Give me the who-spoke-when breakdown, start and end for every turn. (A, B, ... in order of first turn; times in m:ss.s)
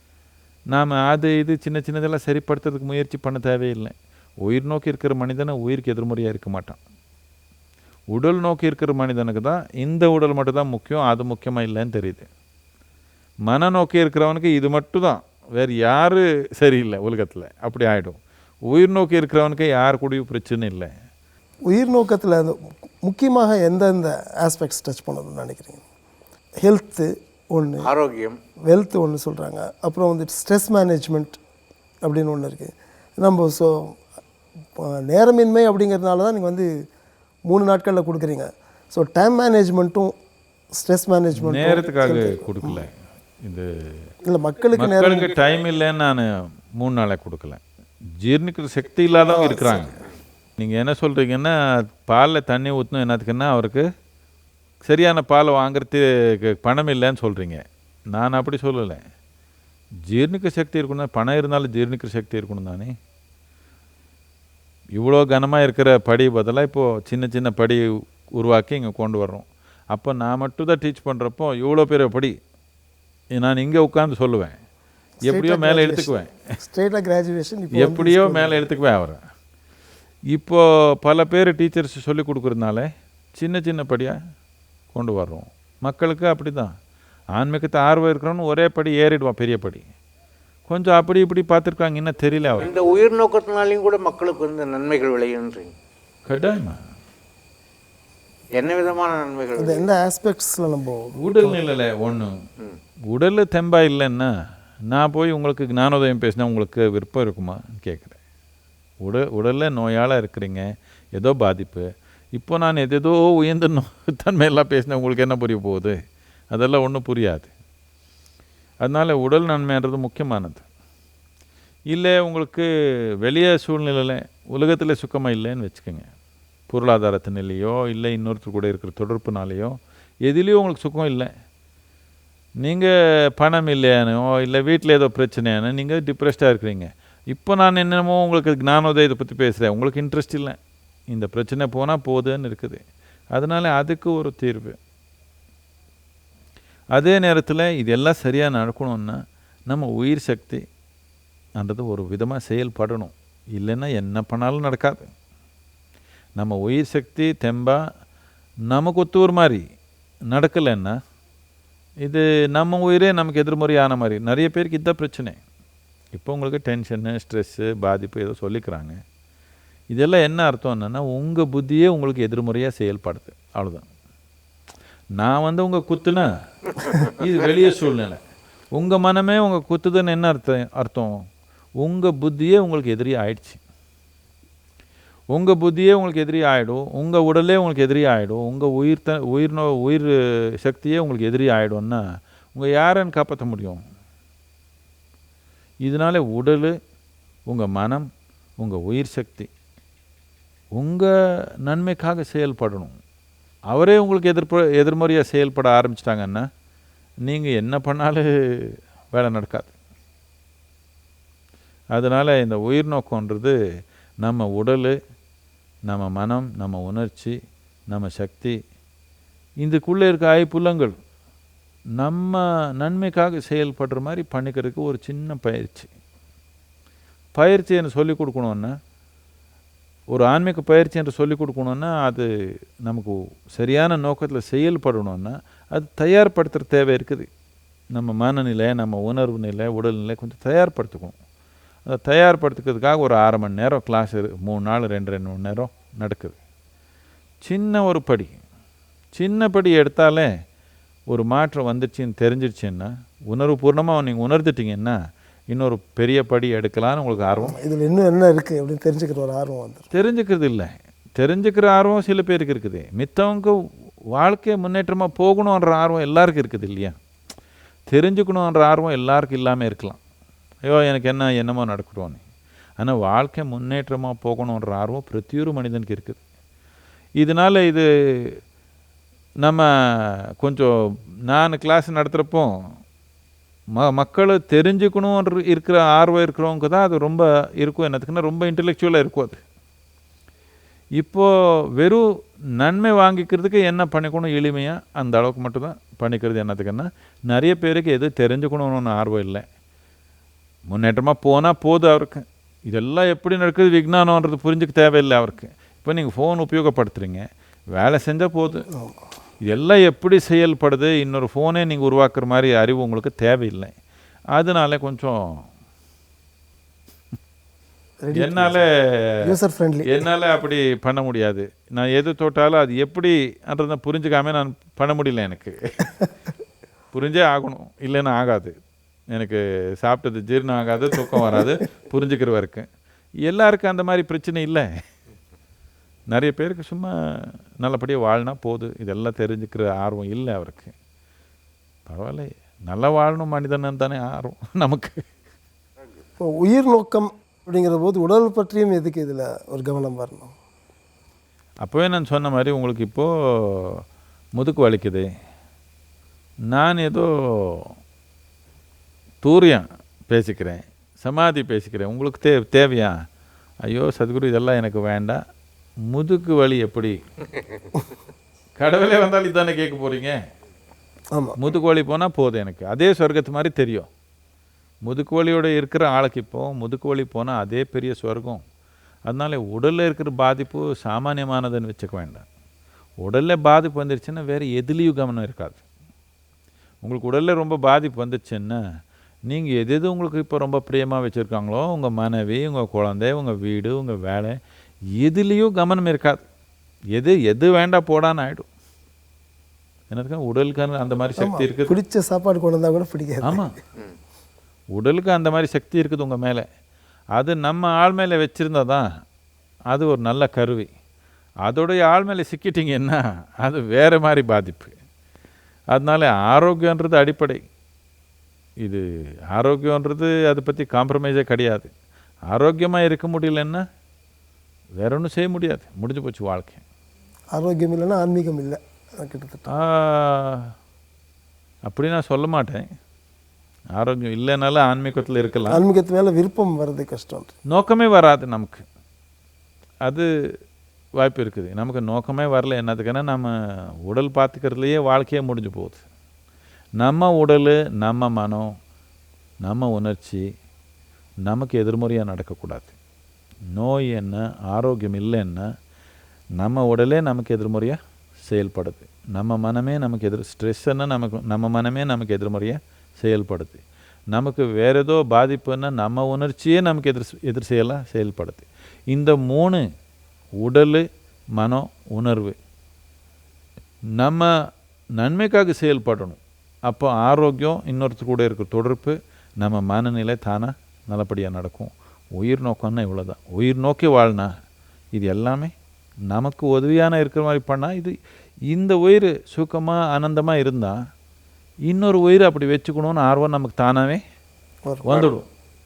0:00.7-0:06.8 A
0:08.1-0:12.3 A
0:13.5-0:20.9 A
0:21.7-0:25.8 B
0:26.6-0:27.9 B
0:27.8-0:28.4 C
0:28.7-0:31.4 B
0:32.0-0:34.0 B
0:34.8-0:36.7 B
0:37.5-0:40.1 B
0:40.8-0:42.8 B
0:41.3-0:42.9 A
0:43.4-0:44.1 A
0:44.3-0:45.3 B
0:44.7-0:47.6 A
0:48.2-0:50.0 A
0:49.3-0:50.0 B
0:50.6-0:53.9 A
0:54.8-0:59.0 A
1:00.0-1:02.9 A
1:05.0-1:12.3 A
1:13.3-1:14.6 A
1:15.2-1:18.6 B
1:15.2-1:16.3 A
1:17.7-1:19.2 A
1:20.3-1:24.2 A
1:24.9-1:26.7 A
1:27.3-1:29.8 A
1:30.7-1:32.9 A
1:32.6-1:35.7 C
1:36.3-1:36.8 A
1:38.6-1:39.9 C
1:39.5-1:41.6 B
1:41.2-1:42.4 A
1:43.1-1:44.3 A
1:44.9-1:48.2 A
1:49.0-1:56.0 A
1:56.5-1:57.5 A
1:58.8-2:00.6 A
2:01.9-2:06.1 A
2:06.7-2:11.3 A
2:12.6-2:20.6 A
2:21.1-2:22.8 A
2:23.3-2:24.8 A
2:26.9-2:30.6 A
2:31.6-2:35.1 A
2:36.4-2:37.8 A
2:38.7-2:39.6 A
2:40.3-2:41.0 A
2:42.0-2:45.4 A
2:46.1-2:49.0 A
2:49.9-2:53.8 A
2:55.2-2:56.3 A
2:57.0-2:58.2 A
2:58.7-3:01.3 A
3:01.8-3:03.6 A
3:05.3-3:12.0 A
3:12.5-3:13.8 A
3:15.8-3:16.8 A
3:17.5-3:18.1 A
3:18.6-3:19.5 A
3:20.7-3:21.1 A
3:21.6-3:23.0 A
3:23.7-3:26.5 A
3:27.2-3:29.7 A
3:31.9-3:33.6 A
3:34.2-3:35.0 A
3:35.9-3:37.4 A
3:37.9-3:38.6 A
3:39.6-3:41.0 A
3:42.0-3:45.9 A
3:47.4-3:48.8 A
3:50.1-3:52.3 A
3:52.8-3:57.3 A
3:57.9-4:01.2 A
4:01.8-4:06.4 A
4:07.4-4:08.4 A
4:09.2-4:10.3 A
4:11.1-4:15.0 A
4:15.5-4:17.6 A
4:17.4-4:19.9 B
4:19.9-4:23.6 A
4:24.1-4:27.0 A
4:27.9-4:30.0 A
4:30.6-4:32.2 A
4:32.8-4:36.2 A
4:37.2-4:38.4 A
4:39.4-4:42.5 A
4:43.8-4:49.4 A
4:51.0-4:59.4 A
5:00.7-5:08.7 A
5:09.4-5:13.7 A
5:14.3-5:15.4 A
5:18.0-5:18.6 B
5:18.1-5:19.4 A
5:19.2-5:20.0 B
5:19.9-5:25.9 A
5:26.9-5:28.5 A
5:29.1-5:32.7 A
5:33.2-5:34.7 A
5:36.1-5:40.7 A
5:41.9-5:45.0 A
5:46.2-5:50.3 B
5:51.6-5:53.8 A
5:54.4-5:55.1 A
5:56.5-5:57.8 A
5:59.2-6:03.0 A
6:03.6-6:05.2 A
6:05.9-6:07.0 A
6:08.6-6:10.2 A
6:11.1-6:11.4 B
6:11.4-6:13.9 A
6:14.8-6:18.4 A
6:19.1-6:22.2 A
6:23.0-6:25.6 A
6:26.8-6:28.6 A
6:29.3-6:34.4 A
6:35.0-6:36.2 A
6:36.9-6:38.5 A
6:39.9-6:41.7 A
6:41.2-6:43.4 B
6:43.2-6:43.5 A
6:44.7-6:46.4 A
6:47.1-6:48.9 A
6:49.7-6:50.7 A
6:51.4-6:54.7 A
6:55.7-6:57.4 A
6:58.6-7:01.7 A
7:02.3-7:03.6 A
7:04.8-7:06.6 A
7:07.3-7:09.5 B
7:09.5-7:10.5 A
7:11.6-7:12.7 A
7:13.7-7:15.6 A
7:15.5-7:17.3 B
7:17.5-7:18.6 A
7:19.8-7:20.1 A
7:21.0-7:25.8 A
7:26.8-7:28.5 A
7:29.4-7:30.2 A
7:31.2-7:32.7 A
7:33.5-7:35.5 A
7:36.4-7:43.6 A
7:44.1-7:49.6 A
7:50.4-7:50.8 A
7:51.4-7:52.4 A
7:54.0-7:54.3 A
7:55.0-8:04.3 A
8:04.9-8:05.5 A
8:06.1-8:08.0 A
8:08.5-8:10.8 A
8:11.7-8:14.0 A
8:14.7-8:15.1 B
8:14.8-8:15.3 A